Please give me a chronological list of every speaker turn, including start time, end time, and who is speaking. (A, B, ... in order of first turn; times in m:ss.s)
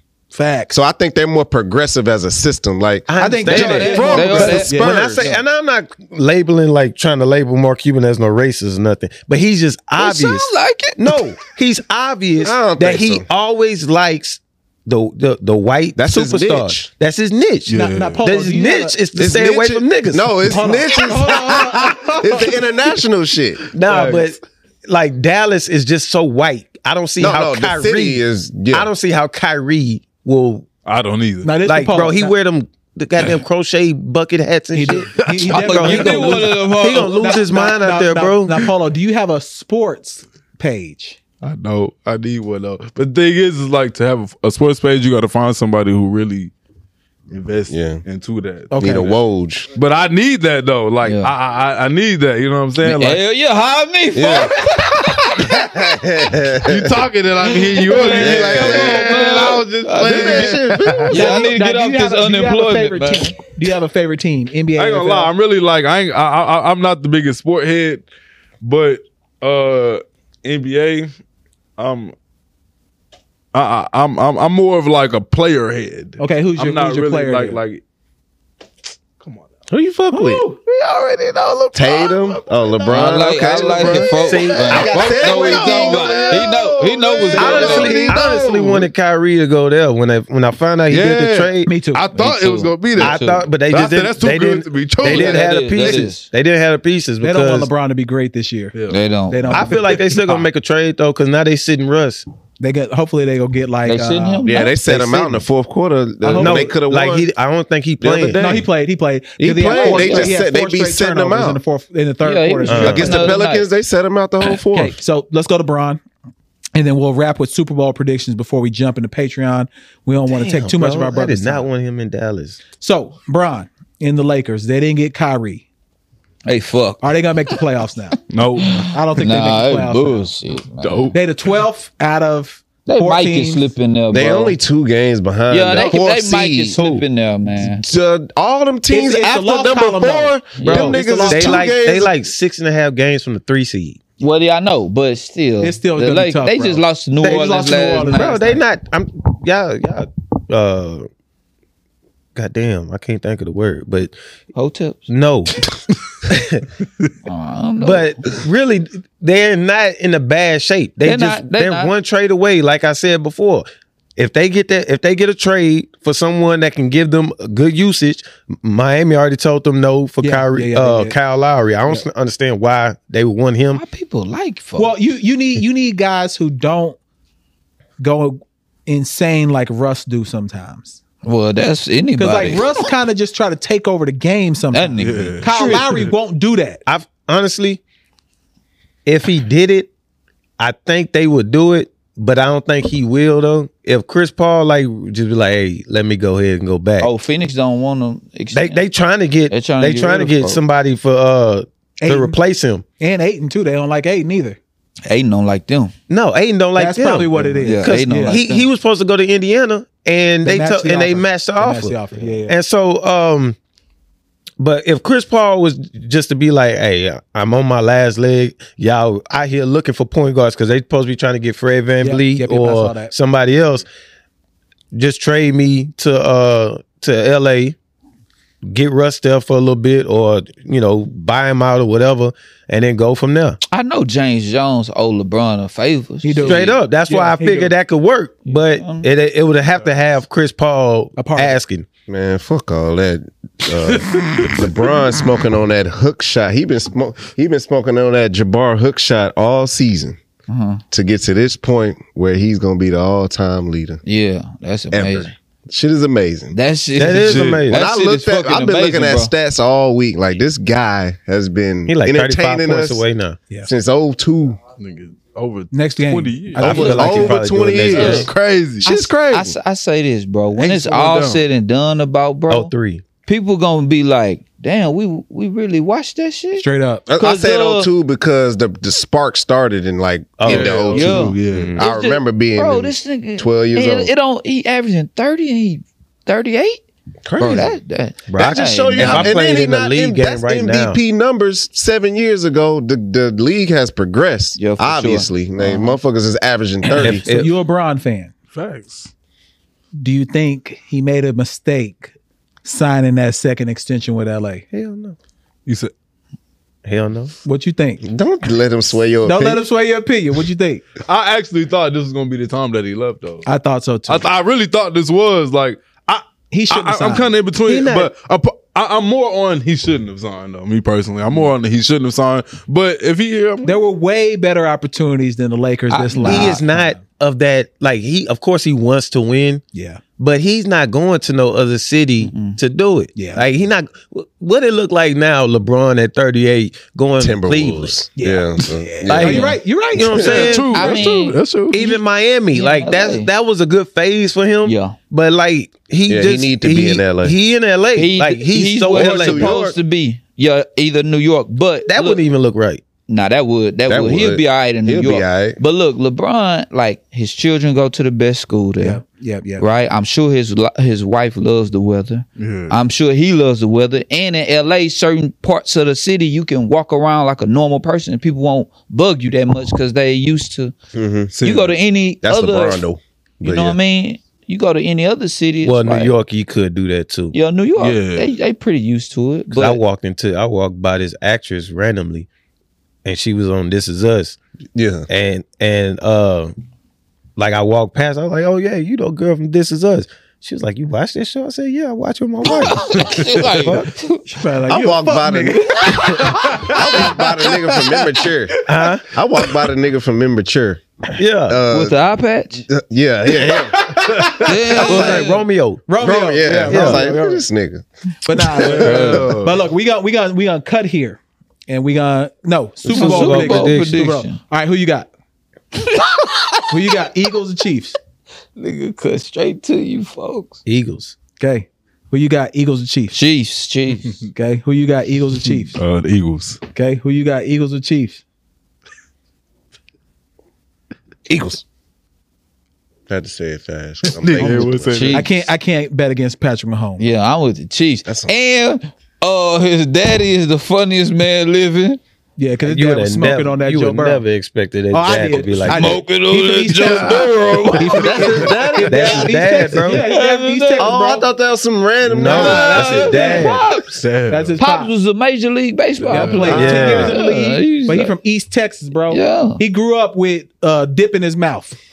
0:00.3-0:00.8 A
0:00.7-0:05.3 B
0:03.1-0:20.6 C
0:03.2-0:05.4 A
0:03.4-0:05.2 D
0:03.9-0:04.7 E
0:10.0-0:11.2 D
0:12.4-0:13.2 B
0:16.0-0:16.9 B
0:17.7-0:18.2 E
0:17.7-0:19.0 A
0:19.1-0:23.6 B
0:20.5-0:22.6 A
0:23.7-0:30.6 C
0:23.8-0:24.3 E
0:27.2-0:28.9 B
0:30.8-0:31.5 E
0:31.4-0:32.3 A
0:31.6-0:38.6 C
0:34.7-0:41.2 A
0:35.2-0:35.7 E
0:35.5-0:37.3 D
0:41.4-0:46.5 E
0:47.3-0:49.1 E
0:47.7-0:48.0 B
0:48.7-0:49.2 A
0:48.8-0:49.7 B
0:49.7-0:53.2 E
0:51.0-0:51.3 D
0:52.8-0:55.6 D
0:54.1-0:54.7 B
0:55.4-0:57.0 B
0:56.6-1:01.2 E
0:57.4-1:03.3 D
0:58.0-1:01.3 B
1:01.1-1:05.3 A
1:04.8-1:08.0 E
1:08.6-1:11.1 E
1:11.8-1:12.1 E
1:13.5-1:17.8 E
1:16.2-1:17.6 A
1:19.2-1:19.5 E
1:19.7-1:20.4 B
1:20.1-1:20.6 A
1:20.7-1:21.7 D
1:21.6-1:24.0 E
1:21.7-1:28.8 B
1:22.9-1:28.1 D
1:24.0-1:25.3 C
1:24.7-1:28.9 E
1:27.4-1:31.7 C
1:30.9-1:36.1 E
1:31.6-1:32.1 A
1:32.2-1:33.5 D
1:33.0-1:37.7 C
1:35.0-1:36.3 D
1:37.2-1:38.7 A
1:38.7-1:39.0 E
1:38.9-1:39.8 D
1:39.3-1:40.4 A
1:39.5-1:42.2 C
1:42.6-1:44.4 A
1:43.8-1:44.8 D
1:44.4-1:47.3 B
1:44.8-1:45.4 C
1:46.2-1:46.7 A
1:46.3-1:48.6 C
1:48.0-1:48.6 B
1:48.4-1:53.4 A
1:49.4-1:51.6 B
1:49.6-1:50.4 D
1:52.2-1:53.7 D
1:52.7-1:53.1 C
1:52.9-1:55.0 B
1:54.6-1:56.0 A
1:56.7-2:01.7 A
2:00.3-2:02.6 C
2:02.8-2:05.6 A
2:06.4-2:07.1 D
2:07.0-2:08.2 A
2:08.3-2:08.9 E
2:08.6-2:11.1 D
2:08.8-2:10.3 A
2:10.8-2:11.1 E
2:11.1-2:13.7 A
2:12.8-2:14.6 D
2:14.1-2:16.8 B
2:15.5-2:17.8 D
2:16.8-2:17.0 C
2:17.6-2:22.2 B
2:18.9-2:21.7 A
2:20.6-2:20.9 D
2:20.6-2:24.0 C
2:24.2-2:28.6 D
2:25.6-2:28.4 A
2:28.1-2:31.1 C
2:32.3-2:34.1 C
2:34.5-2:35.1 D
2:35.1-2:35.6 C
2:36.3-2:36.6 C
2:37.2-2:38.1 D
2:37.8-2:43.6 C
2:41.0-2:41.9 D
2:44.2-2:53.8 C
2:50.2-2:51.2 A
2:53.8-2:54.9 D
2:54.8-2:57.0 A
2:58.0-3:01.0 A
3:01.2-3:02.7 D
3:02.2-3:06.8 A
3:04.7-3:05.7 D
3:05.0-3:06.1 E
3:05.5-3:05.9 C
3:06.9-3:07.8 C
3:09.0-3:09.9 C
3:10.6-3:17.1 C
3:17.0-3:18.8 D
3:18.5-3:22.8 C
3:19.5-3:20.6 D
3:22.0-3:22.4 A
3:23.0-3:24.6 A
3:25.1-3:25.9 D
3:26.1-3:33.6 C
3:26.8-3:28.4 A
3:27.6-3:28.7 D
3:30.4-3:32.5 A
3:34.6-3:43.8 C
3:42.0-3:43.1 A
3:44.9-3:47.8 C
3:48.6-3:53.6 C
3:53.7-3:56.8 D
3:56.2-3:57.7 A
3:56.4-4:01.9 C
3:58.5-3:59.1 D
4:01.2-4:01.6 A
4:02.1-4:10.2 B
4:03.8-4:04.7 E
4:10.5-4:10.8 D
4:10.9-4:14.0 B
4:14.0-4:15.3 D
4:14.9-4:16.6 B
4:16.5-4:19.3 D
4:17.0-4:17.8 C
4:17.1-4:17.6 E
4:17.7-4:23.0 B
4:21.9-4:23.4 C
4:23.6-4:24.6 B
4:24.8-4:27.2 E
4:25.7-4:27.4 A
4:26.6-4:28.3 C
4:26.6-4:28.3 B
4:26.8-4:27.1 D
4:27.9-4:28.9 E
4:27.9-4:28.3 D
4:28.8-4:29.5 B
4:28.8-4:32.7 D
4:30.6-4:31.4 E
4:32.5-4:33.0 C
4:33.2-4:36.6 D
4:36.6-4:37.0 A
4:37.1-4:44.1 B
4:37.2-4:37.9 D
4:40.4-4:41.8 C
4:40.4-4:41.8 E
4:40.9-4:46.8 D
4:47.2-4:47.7 B
4:47.4-4:49.4 D
4:47.4-4:47.7 C
4:48.3-4:51.0 C
4:48.4-4:57.2 B
4:54.6-4:56.0 D
4:56.9-4:57.5 C
4:56.9-4:58.3 A
4:58.5-4:59.1 E
5:00.0-5:02.1 A
5:02.6-5:04.6 A
5:04.7-5:05.2 C
5:05.6-5:05.9 E
5:06.8-5:07.3 C
5:07.4-5:08.0 A
5:08.0-5:09.6 B
5:09.2-5:10.8 A
5:11.0-5:13.5 E
5:13.4-5:14.3 A
5:14.1-5:23.8 E
5:16.5-5:17.3 A
5:17.6-5:18.1 C
5:23.6-5:27.0 A
5:25.9-5:26.6 D
5:26.2-5:29.6 C
5:29.7-5:30.0 A
5:30.2-5:38.0 C
5:32.3-5:32.6 D
5:33.2-5:33.4 A
5:37.2-5:39.5 B
5:38.2-5:40.7 A
5:39.1-5:41.1 C
5:39.2-5:39.6 D
5:40.1-5:42.0 E
5:40.7-5:41.4 D
5:41.7-5:49.6 C
5:42.5-5:43.3 D
5:44.6-5:45.0 D
5:46.1-5:47.4 B
5:47.9-5:52.2 D
5:48.9-5:49.8 B
5:51.8-5:52.8 C
5:53.1-5:59.0 D
5:53.9-5:55.6 B
5:58.8-5:59.6 A
5:59.6-6:10.7 D
6:02.4-6:02.8 E
6:10.9-6:11.3 B
6:11.3-6:11.8 E
6:11.4-6:12.8 D
6:12.2-6:13.8 B
6:13.4-6:16.1 D
6:15.6-6:17.3 C
6:17.3-6:19.8 D
6:17.8-6:18.3 E
6:19.5-6:22.3 C
6:23.0-6:24.4 C
6:24.7-6:25.1 B
6:25.1-6:26.5 C
6:27.4-6:33.9 C
6:32.4-6:34.3 D
6:34.3-6:37.2 A
6:34.7-6:40.8 B
6:36.4-6:36.7 E
6:38.7-6:39.0 C
6:41.1-6:41.6 C
6:41.5-6:42.0 B
6:41.7-6:42.7 D
6:42.7-6:44.0 B
6:43.4-6:45.2 A
6:44.4-6:45.4 D
6:44.8-6:45.3 B
6:44.8-6:46.0 C
6:45.9-6:47.4 A
6:46.0-6:47.8 B
6:46.6-6:47.1 C
6:48.2-6:55.1 A
6:48.4-6:49.4 B
6:48.6-6:49.5 E
6:52.8-6:54.0 C
6:52.9-6:54.4 D
6:55.7-6:56.8 D
6:56.7-6:58.0 A
6:58.6-7:00.6 D
7:00.6-7:01.1 C
7:01.4-7:03.2 A
7:03.1-7:04.1 D
7:04.3-7:05.8 A
7:05.5-7:06.6 E
7:06.7-7:08.2 A
7:11.3-7:11.6 B
7:13.1-7:15.0 B
7:14.0-7:15.3 E
7:14.4-7:17.1 A
7:14.9-7:15.3 D
7:17.0-7:22.0 D
7:18.0-7:18.3 B
7:22.4-7:24.2 A
7:22.6-7:26.0 C
7:24.9-7:31.3 A
7:25.7-7:29.3 D
7:26.7-7:27.8 E
7:28.0-7:29.3 B
7:28.9-7:30.0 C
7:29.9-7:31.0 D
7:30.8-7:33.0 B
7:32.0-7:33.6 C
7:32.2-7:33.5 A
7:32.3-7:34.0 D
7:33.8-7:34.6 E
7:34.3-7:34.9 A
7:34.6-7:38.1 D
7:36.0-7:37.1 E
7:36.1-7:41.8 A
7:36.4-7:37.2 B
7:36.5-7:37.1 C
7:39.1-7:39.6 D